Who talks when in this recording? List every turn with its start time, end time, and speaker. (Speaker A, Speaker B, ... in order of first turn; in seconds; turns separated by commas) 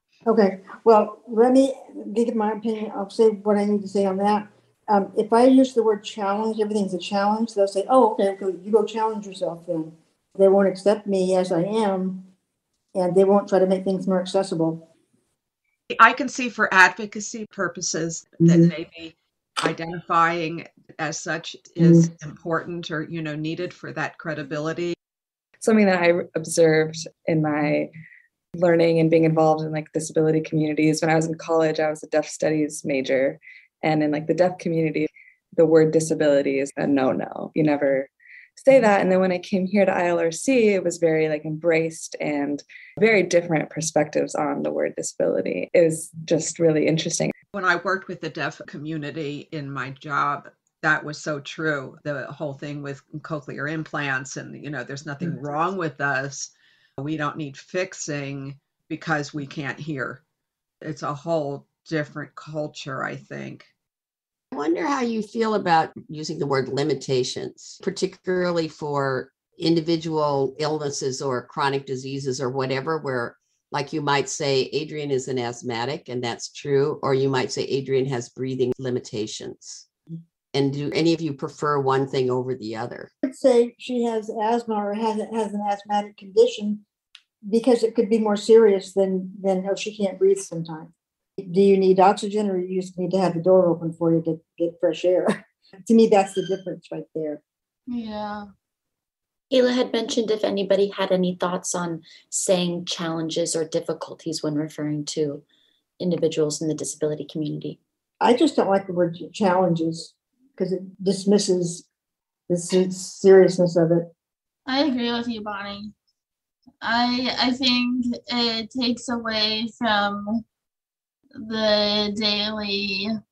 Speaker A: 0.3-12.3, Speaker A: 12.9-14.9, Speaker B: 15.9-24.9, Speaker A: 18.4-18.7, Speaker A: 21.8-22.1, Speaker C: 25.6-27.9, Speaker C: 28.6-47.3, Speaker B: 47.5-60.2, Speaker B: 60.8-63.7, Speaker D: 64.5-79.9, Speaker D: 80.5-83.1, Speaker A: 83.2-86.8, Speaker A: 87.5-97.4, Speaker E: 97.9-98.5, Speaker F: 99.5-105.4, Speaker F: 106.0-107.8, Speaker A: 108.2-111.8, Speaker A: 112.5-114.1, Speaker E: 114.7-115.9, Speaker E: 116.8-120.4, Speaker E: 121.3-123.1